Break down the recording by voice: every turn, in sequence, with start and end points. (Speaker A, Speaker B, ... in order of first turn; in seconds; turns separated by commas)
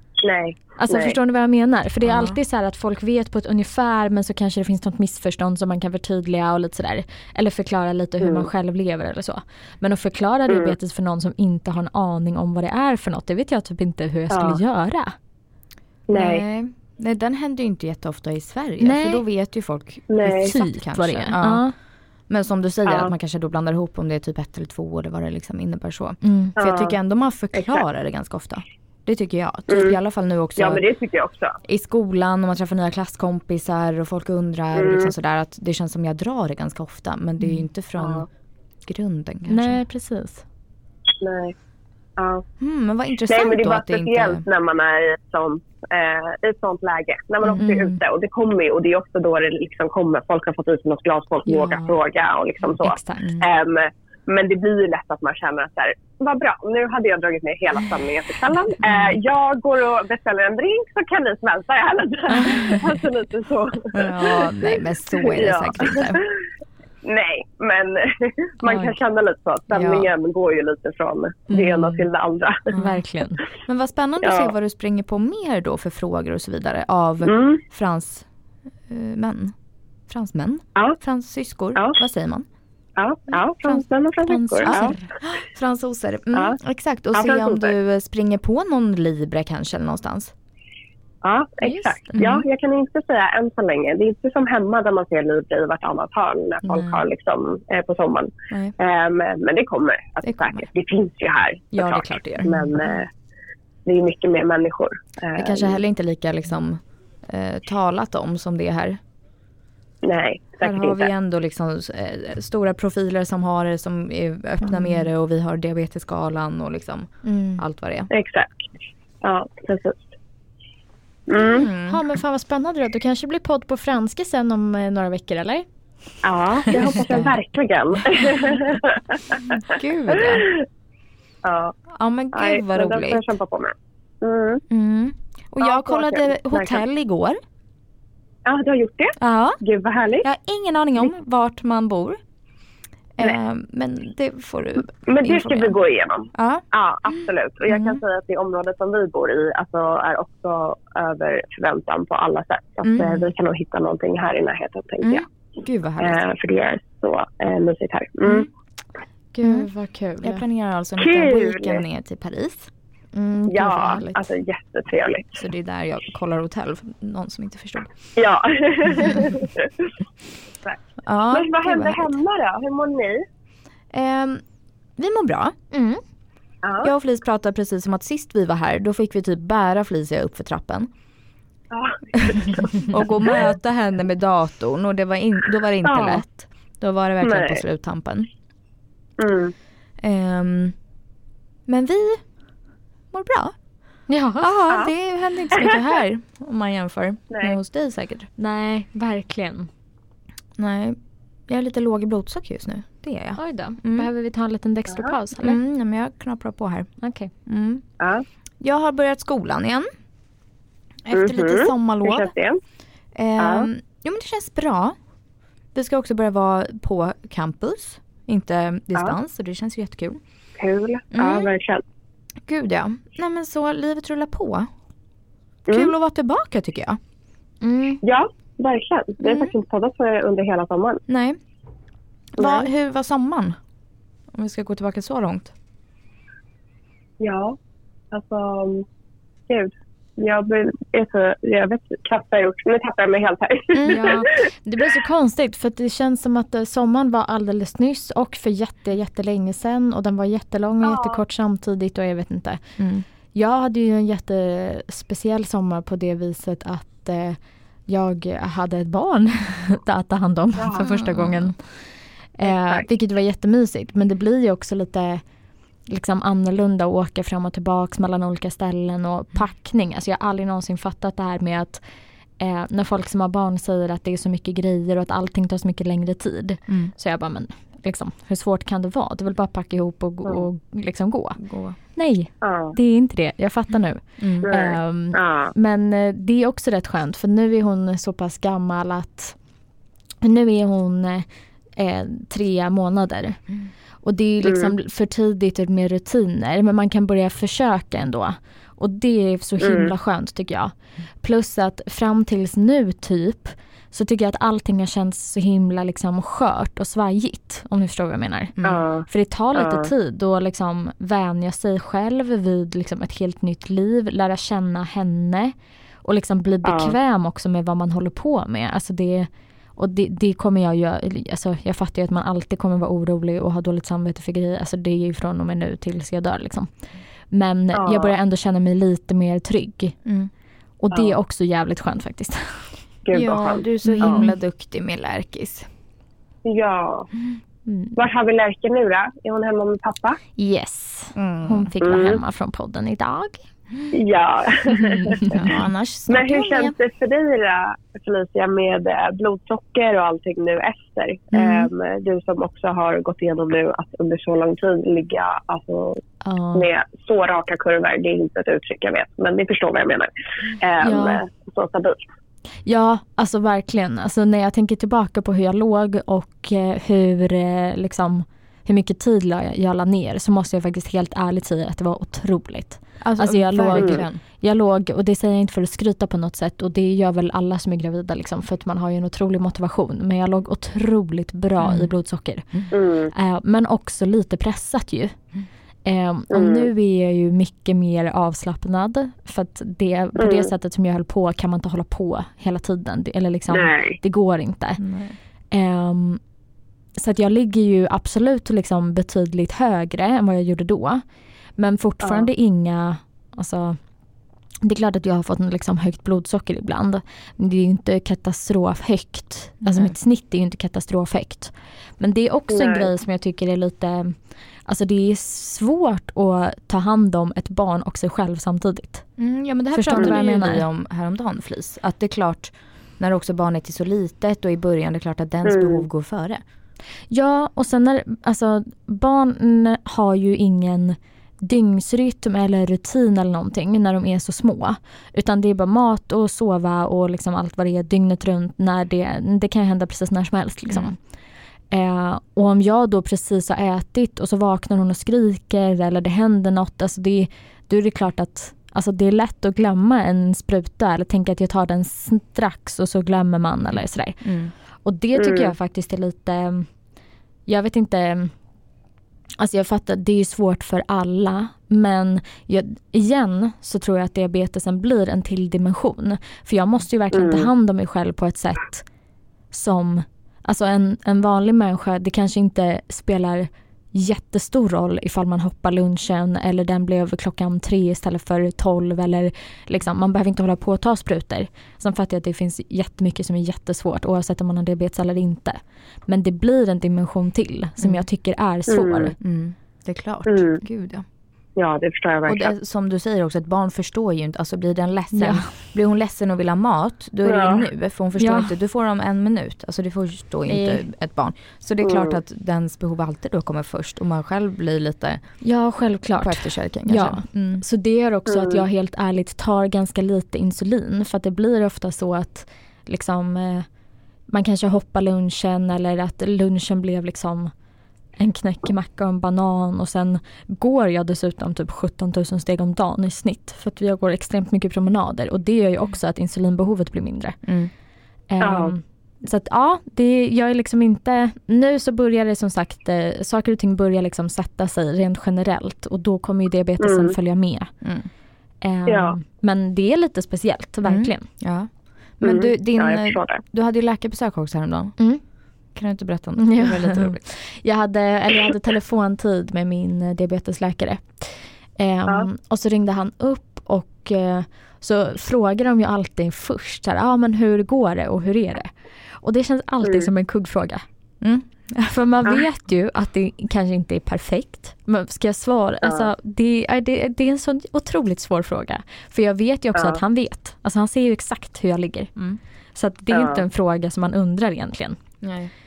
Speaker A: 0.2-1.2, Speaker B: 0.8-15.1, Speaker C: 2.0-2.4, Speaker A: 8.2-8.5, Speaker A: 10.5-10.7, Speaker A: 14.3-14.6, Speaker A: 16.1-16.4, Speaker C: 16.1-21.6, Speaker B: 18.8-19.2, Speaker A: 20.1-20.5, Speaker B: 20.2-21.7, Speaker C: 22.3-30.8, Speaker A: 22.9-23.1, Speaker B: 26.2-26.6, Speaker A: 26.6-26.9, Speaker A: 27.5-27.8, Speaker A: 29.7-30.0, Speaker A: 30.6-31.6, Speaker C: 31.6-38.3, Speaker A: 34.8-35.1, Speaker C: 38.8-39.8, Speaker B: 39.5-40.4, Speaker A: 41.2-41.5, Speaker A: 42.2-42.4, Speaker C: 42.6-44.4, Speaker A: 43.3-66.3, Speaker B: 47.6-48.0, Speaker B: 51.5-52.0, Speaker B: 52.8-53.2, Speaker C: 53.2-53.4, Speaker B: 62.3-62.7, Speaker C: 63.9-66.2, Speaker A: 67.0-72.7, Speaker B: 68.6-69.0, Speaker C: 69.7-70.1, Speaker B: 71.5-72.0, Speaker C: 72.7-73.0, Speaker B: 72.7-73.4, Speaker C: 73.6-78.2, Speaker A: 74.2-74.5, Speaker A: 77.2-77.6, Speaker C: 78.9-79.5, Speaker C: 80.1-82.4, Speaker A: 83.0-84.9, Speaker B: 84.2-85.1, Speaker C: 84.6-90.3, Speaker A: 87.1-87.7, Speaker A: 91.2-103.1, Speaker B: 91.6-92.2, Speaker C: 92.1-92.4, Speaker C: 96.6-97.0, Speaker C: 100.2-100.6, Speaker C: 101.7-103.0, Speaker A: 103.8-105.8, Speaker C: 105.3-109.0, Speaker A: 110.0-111.1, Speaker C: 110.6-118.1, Speaker B: 117.2-117.6, Speaker A: 118.1-118.7, Speaker A: 119.2-120.1, Speaker A: 121.3-121.7, Speaker C: 121.5-122.0, Speaker B: 121.8-125.7, Speaker A: 126.2-129.4, Speaker B: 126.8-127.3, Speaker C: 129.6-130.5, Speaker A: 130.2-130.6, Speaker A: 131.4-131.7, Speaker C: 131.9-133.3, Speaker A: 132.3-134.6, Speaker C: 134.7-137.4, Speaker A: 135.6-136.8, Speaker A: 138.4-140.3, Speaker C: 139.2-139.6, Speaker C: 140.2-142.2, Speaker C: 143.2-145.8, Speaker A: 145.1-155.2, Speaker C: 146.3-147.2, Speaker C: 147.7-148.0, Speaker C: 152.8-153.3, Speaker C: 155.0-156.2, Speaker A: 156.0-158.5, Speaker B: 159.3-160.4, Speaker C: 159.4-159.7, Speaker C: 160.2-162.7, Speaker A: 161.0-161.8, Speaker B: 163.1-164.2, Speaker A: 163.5-165.4, Speaker C: 165.3-167.9, Speaker A: 168.2-169.9, Speaker C: 168.9-169.2, Speaker C: 171.0-172.2, Speaker A: 171.3-173.2, Speaker C: 173.9-174.4, Speaker C: 175.0-175.6, Speaker B: 175.7-176.0, Speaker A: 176.6-176.9, Speaker C: 176.8-180.9, Speaker A: 181.7-183.4, Speaker C: 182.9-188.3, Speaker A: 185.8-186.2, Speaker A: 187.2-187.6, Speaker A: 189.2-189.5, Speaker C: 190.0-190.7, Speaker C: 191.7-192.2, Speaker C: 193.1-193.5, Speaker B: 194.1-194.6, Speaker C: 194.4-198.3, Speaker A: 195.5-195.8, Speaker A: 197.3-197.6, Speaker B: 198.4-199.7, Speaker C: 200.6-204.1, Speaker B: 203.4-205.6, Speaker C: 205.4-206.9, Speaker B: 207.0-207.3, Speaker C: 207.4-207.8, Speaker C: 208.6-209.9, Speaker C: 211.1-212.3, Speaker A: 211.1-212.6, Speaker C: 213.2-214.9, Speaker A: 213.4-213.7, Speaker C: 215.7-220.2, Speaker A: 220.6-221.8, Speaker C: 221.1-221.5, Speaker C: 222.4-224.7, Speaker A: 225.7-225.9, Speaker C: 225.7-227.0, Speaker B: 227.6-228.0, Speaker A: 228.0-231.0, Speaker C: 229.2-229.5, Speaker C: 231.1-231.4, Speaker C: 232.3-233.6, Speaker A: 232.4-232.7, Speaker C: 234.3-235.5, Speaker A: 237.2-237.6, Speaker A: 238.1-238.8, Speaker A: 239.5-244.3, Speaker C: 243.7-244.1, Speaker B: 243.9-252.6, Speaker A: 250.8-251.2, Speaker C: 252.8-253.0, Speaker B: 253.3-261.6, Speaker A: 260.6-260.9, Speaker C: 260.8-261.5, Speaker B: 262.4-265.2, Speaker A: 262.4-262.9, Speaker B: 265.9-271.8, Speaker B: 272.4-281.4, Speaker C: 281.4-281.8, Speaker B: 281.9-289.4, Speaker A: 282.4-282.7, Speaker C: 284.2-284.5, Speaker A: 284.4-285.5, Speaker B: 290.2-293.4, Speaker B: 294.0-326.7, Speaker A: 294.4-294.7, Speaker A: 299.6-299.9, Speaker C: 308.6-308.8, Speaker A: 308.6-309.9, Speaker A: 316.6-316.9, Speaker B: 327.3-330.0, Speaker A: 327.7-328.1, Speaker C: 330.0-330.3, Speaker B: 330.8-332.6, Speaker A: 333.0-334.2, Speaker C: 333.1-335.7, Speaker B: 333.8-334.4, Speaker A: 336.4-337.1, Speaker B: 337.7-338.0, Speaker A: 337.9-340.2, Speaker B: 340.4-343.4, Speaker C: 341.1-341.7, Speaker A: 341.8-342.2, Speaker A: 343.9-345.4, Speaker B: 344.7-345.4, Speaker C: 345.3-346.8, Speaker A: 346.1-356.0, Speaker B: 351.4-351.6, Speaker B: 356.2-356.7, Speaker A: 356.5-362.1, Speaker B: 360.8-361.2, Speaker B: 362.6-385.1, Speaker C: 373.0-374.2, Speaker A: 373.7-374.0, Speaker C: 381.6-381.9, Speaker A: 382.7-383.1, Speaker B: 385.8-394.8, Speaker A: 386.3-386.7, Speaker A: 390.1-390.5, Speaker A: 393.5-394.0, Speaker C: 394.8-395.1, Speaker B: 395.5-396.2, Speaker B: 397.0-401.0, Speaker B: 401.6-403.8, Speaker A: 402.0-402.3, Speaker B: 404.6-419.1, Speaker C: 409.6-409.9, Speaker A: 412.5-412.9, Speaker C: 419.2-426.4, Speaker B: 419.7-420.6, Speaker A: 425.4-425.8, Speaker B: 427.1-440.9, Speaker B: 441.7-454.2, Speaker C: 454.2-454.5, Speaker B: 454.8-456.7, Speaker A: 455.1-455.5, Speaker B: 457.5-458.3, Speaker B: 459.4-468.8, Speaker A: 467.1-467.5, Speaker B: 469.5-489.1, Speaker A: 488.7-489.1, Speaker C: 489.2-491.0, Speaker A: 490.3-490.6, Speaker A: 491.6-492.5, Speaker C: 492.3-505.2, Speaker B: 495.1-495.5, Speaker A: 497.2-497.7, Speaker B: 498.2-498.5, Speaker B: 500.5-500.8, Speaker A: 501.8-502.2, Speaker B: 505.4-513.6, Speaker C: 506.2-507.6, Speaker A: 508.3-508.6, Speaker B: 514.3-517.5, Speaker B: 518.2-527.4, Speaker B: 528.3-537.7, Speaker A: 528.4-528.7, Speaker A: 536.8-537.1, Speaker B: 538.6-541.2, Speaker A: 538.9-539.1, Speaker C: 540.9-544.9, Speaker A: 542.2-543.4, Speaker C: 545.7-547.2, Speaker B: 546.4-560.8, Speaker A: 559.8-560.1, Speaker C: 561.2-561.9, Speaker B: 561.9-572.1, Speaker A: 569.8-570.0, Speaker B: 572.7-575.0, Speaker A: 573.1-573.4, Speaker C: 575.2-575.5